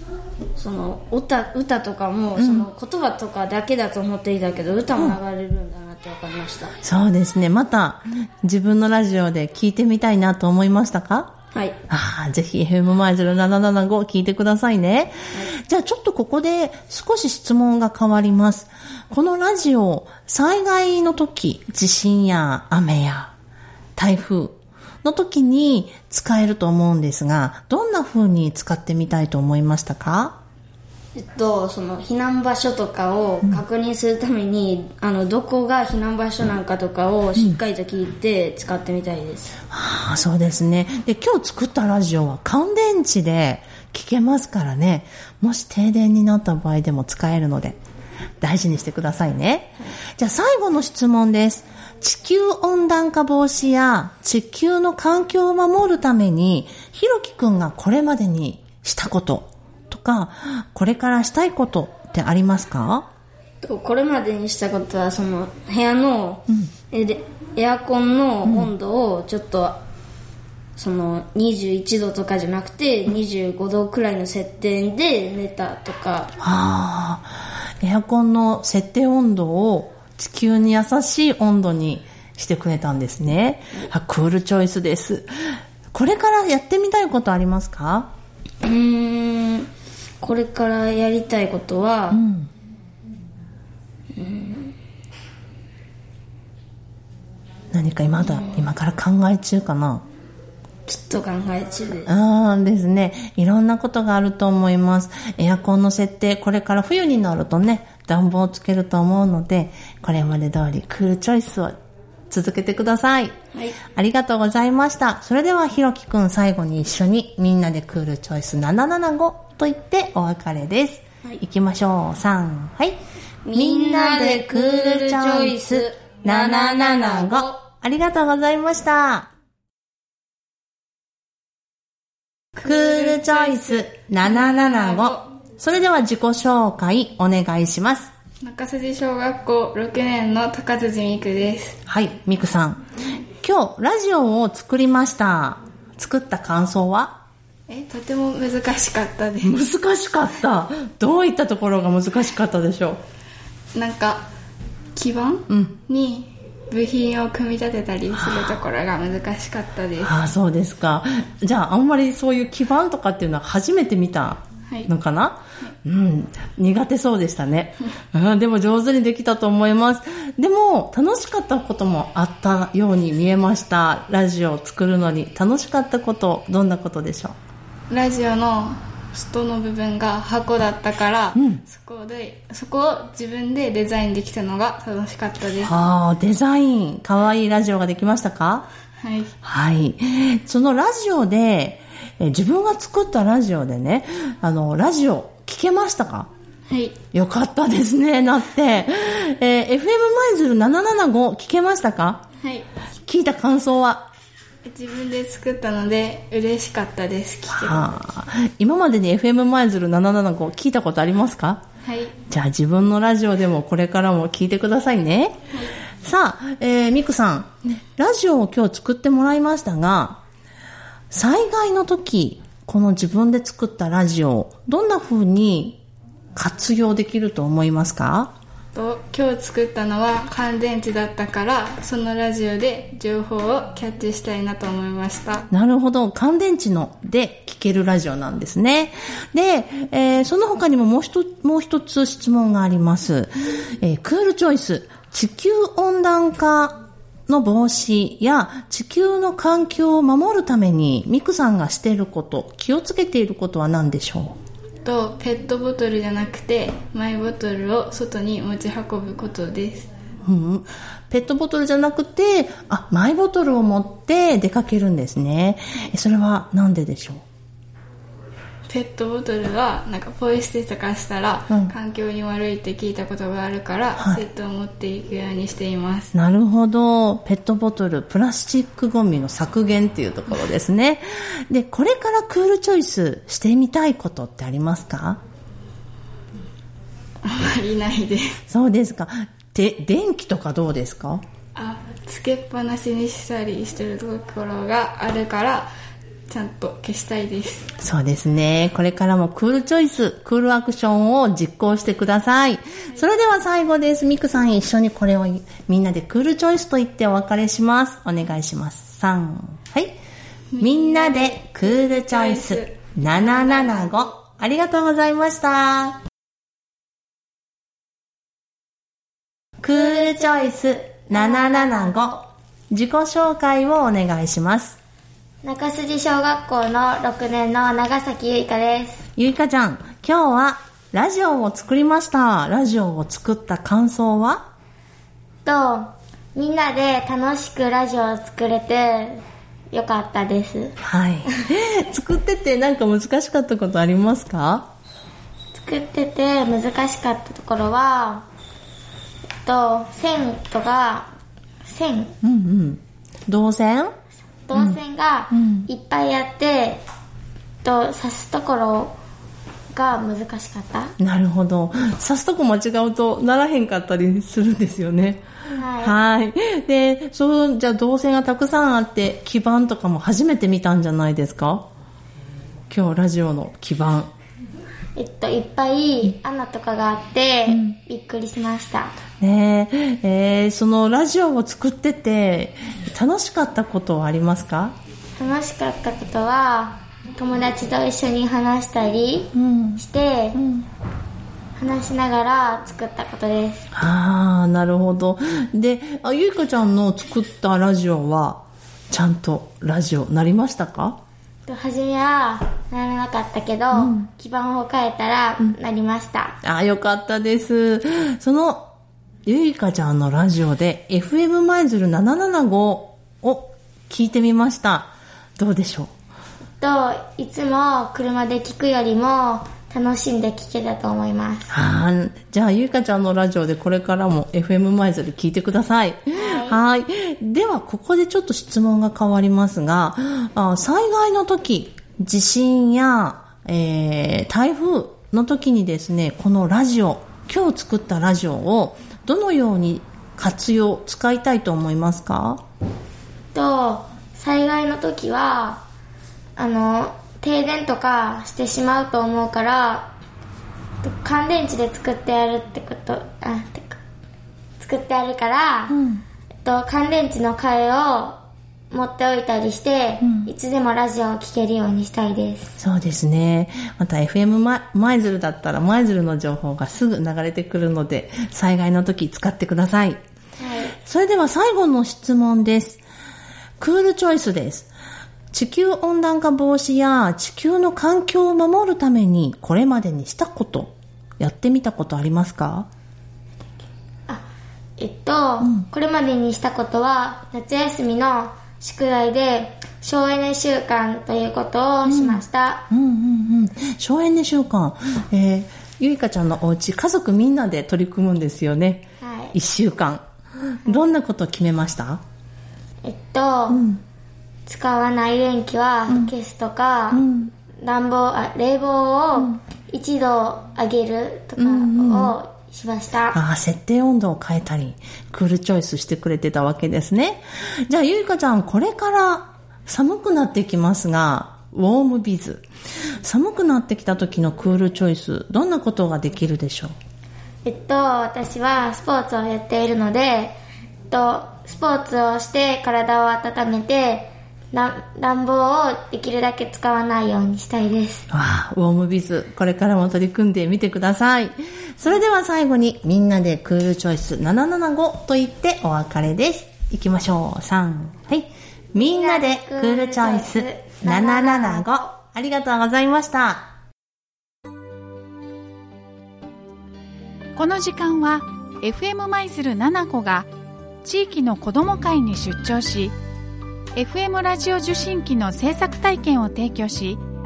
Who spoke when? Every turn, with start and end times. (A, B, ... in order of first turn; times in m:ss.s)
0:00.6-0:06.7 A
0:02.4-0:02.7 B
0:06.8-0:11.3 B
0:11.5-0:11.8 A
0:11.9-0:23.3 B
0:24.0-0:30.4 B
0:31.1-0:39.6 A
0:39.7-0:47.8 B
0:48.4-1:03.1 B
1:03.6-1:09.8 A
1:08.4-1:08.7 B
1:10.8-1:16.3 A
1:16.4-1:25.3 B
1:25.9-1:28.1 B
1:28.6-1:29.7 A
1:30.2-1:32.2 A
1:32.1-1:32.5 B
1:34.1-1:34.7 A
1:37.7-1:40.0 B
1:40.8-1:42.1 A
1:42.1-1:51.7 B
1:52.3-1:53.3 B
1:53.9-2:03.0 B
2:03.4-2:07.5 A
2:03.5-2:09.3 B
2:12.6-2:15.2 C
2:12.6-2:18.1 B
2:18.4-2:21.7 C
2:21.9-2:22.8 B
2:23.4-2:27.2 B
2:27.7-2:29.6 C
2:29.4-2:33.0 B
2:33.7-2:34.2 C
2:35.0-2:40.1 C
2:35.5-2:35.8 B
2:38.1-2:38.6 B
2:40.0-2:57.4 B
2:57.9-3:05.7 C
3:05.6-3:08.7 B
3:09.0-3:09.3 C
3:09.4-3:16.3 B
3:17.1-3:22.2 B
3:23.1-3:24.1 B
3:24.6-3:27.9 C
3:27.5-3:31.6 B
3:31.8-3:32.1 C
3:32.3-3:35.4 B
3:36.0-3:40.2 B
3:41.1-3:45.8 B
3:46.3-3:48.3 B
3:48.7-3:55.4 C
3:55.5-4:14.4 B
4:14.8-4:19.9 C
4:20.2-4:27.2 B
4:28.7-4:36.1 C
4:36.1-4:45.2 B
4:47.2-4:48.3 C
4:48.5-4:51.2 B
4:51.5-4:55.7 C
4:56.3-4:57.7 C
4:57.8-5:10.0 B
5:10.5-5:14.1 C
5:10.6-5:16.0 B
5:19.6-5:24.8 B
5:19.7-5:20.6 D
5:21.1-5:22.2 D
5:25.4-5:29.1 D
5:29.2-5:34.4 B
5:35.4-5:40.7 D
5:40.8-5:44.7 B
5:45.5-5:48.2 D
5:49.4-5:51.1 D
5:51.6-5:52.1 D
5:52.2-5:53.9 B
5:54.4-5:56.8 D
5:54.5-5:55.7 B
5:57.6-5:59.0 D
5:59.7-6:00.9 D
6:01.0-6:05.2 B
6:05.5-6:06.0 D
6:05.8-6:11.7 B
6:12.7-6:14.1 B
6:15.0-6:18.9 D
6:17.5-6:17.8 B
6:19.2-6:24.7 B
6:25.2-6:30.4 D
6:29.3-6:29.8 B
6:30.3-6:30.6 B
6:31.6-6:33.7 D
6:33.7-6:41.0 B
6:41.5-6:46.4 D
6:43.7-6:44.0 B
6:46.4-6:48.7 B
6:49.2-6:55.9 B
6:56.6-7:01.5 D
7:01.5-7:22.4 B
7:06.1-7:06.6 D
7:23.3-7:25.6 D
7:26.4-7:29.9 D
7:30.8-7:33.8 D
7:34.6-7:35.8 D
7:35.7-7:36.0 B
7:36.4-7:38.2 D
7:38.7-7:42.6 D
7:40.0-7:40.3 B
7:42.6-7:50.0 B
7:50.4-7:50.7 D
7:50.8-7:52.8 B
7:53.6-7:54.7 B
7:55.3-8:02.7 B
8:04.8-8:12.6 D
8:11.9-8:22.0 B
8:19.0-8:19.4 D
8:22.8-8:23.6 D
8:23.5-8:23.8 B
8:24.4-8:27.0 D
8:26.9-8:27.3 B
8:27.6-8:33.2 D
8:31.4-8:32.2 B
8:33.1-8:42.4 B
8:43.0-8:46.7 B
8:47.4-8:50.4 D
8:50.9-8:58.0 D
8:58.1-9:13.5 B
9:08.7-9:11.9 D
9:17.4-9:20.3 E
9:20.8-9:23.0 E
9:23.7-9:27.0 E